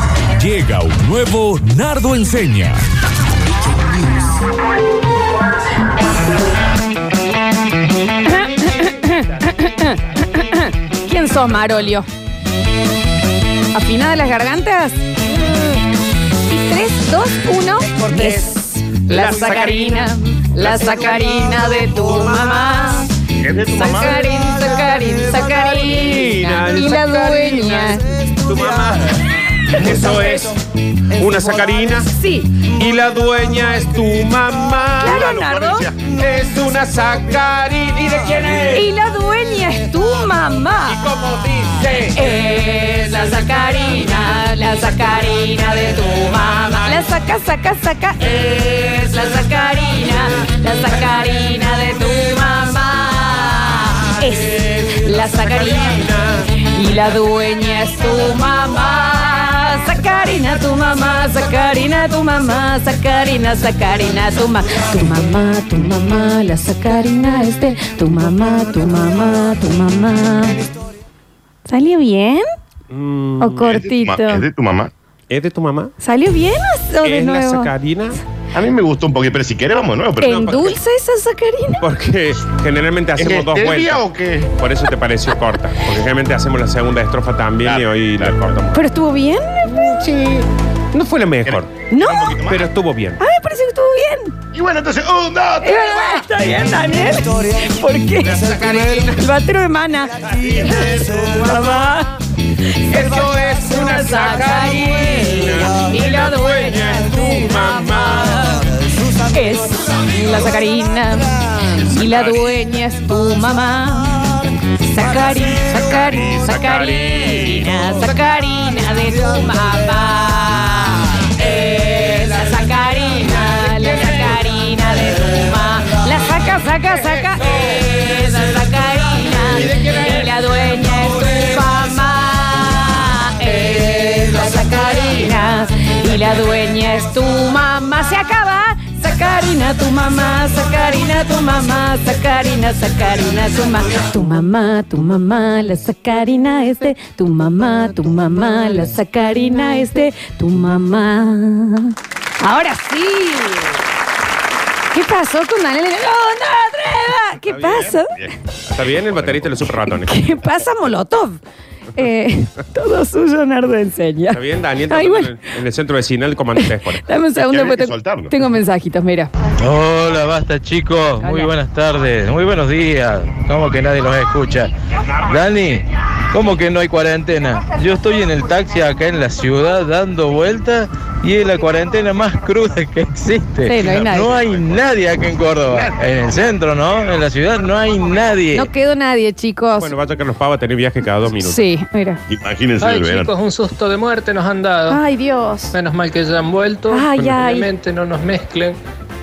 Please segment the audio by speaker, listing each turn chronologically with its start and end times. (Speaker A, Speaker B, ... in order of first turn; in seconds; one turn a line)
Speaker A: 0.3-2.8
Speaker B: 8.2-10.0
Speaker C: 8.3-10.7
Speaker B: 10.5-12.1
Speaker B: 13.7-15.2
Speaker B: 16.5-23.1
Speaker C: 18.1-18.5
Speaker C: 19.1-20.1
Speaker D: 23.4-24.3
Speaker B: 23.7-28.1
Speaker C: 25.4-30.6
Speaker B: 29.7-30.5
Speaker C: 31.1-32.1
Speaker B: 32.1-32.6
Speaker C: 32.7-38.9
Speaker B: 35.0-35.9
Speaker D: 35.1-35.9
Speaker B: 38.7-41.0
Speaker C: 40.9-42.2
Speaker B: 42.1-70.6
Speaker B: 71.7-72.5
Speaker C: 72.9-73.7
Speaker B: 73.4-74.4
Speaker D: 73.6-74.9
Speaker C: 75.3-75.9
Speaker B: 76.0-77.7
Speaker C: 77.0-78.2
Speaker D: 78.5-80.5
Speaker B: 80.2-81.8
Speaker C: 80.2-80.7
Speaker C: 81.8-84.0
Speaker D: 83.2-84.5
Speaker C: 84.6-88.8
Speaker D: 87.6-88.4
Speaker B: 88.7-89.9
Speaker C: 89.7-91.7
Speaker D: 91.5-92.7
Speaker B: 91.9-92.4
Speaker C: 92.5-93.2
Speaker B: 93.2-94.3
Speaker D: 94.5-96.2
Speaker B: 95.6-102.1
Speaker C: 98.2-99.2
Speaker C: 100.3-101.8
Speaker C: 102.9-108.7
Speaker B: 103.7-108.6
Speaker B: 109.3-114.3
Speaker C: 111.9-112.5
Speaker B: 114.8-153.8
Speaker C: 115.0-117.9
Speaker C: 123.4-124.3
Speaker C: 129.7-130.1
Speaker B: 154.9-158.2
Speaker D: 157.5-159.7
Speaker C: 157.6-157.9
Speaker C: 158.7-160.2
Speaker B: 160.0-161.4
Speaker B: 161.9-164.4
Speaker C: 164.3-167.0
Speaker B: 164.9-165.3
Speaker B: 167.1-169.3
Speaker D: 167.5-168.3
Speaker E: 169.6-174.7
Speaker B: 171.2-171.5
Speaker E: 175.2-188.7
Speaker B: 183.7-184.3
Speaker D: 183.8-184.9
Speaker D: 185.7-186.0
Speaker B: 188.5-189.9
Speaker C: 189.8-191.6
Speaker B: 191.4-192.2
Speaker D: 192.3-193.3
Speaker F: 192.8-195.0
Speaker B: 194.9-195.8
Speaker F: 195.7-198.8
Speaker B: 196.9-197.7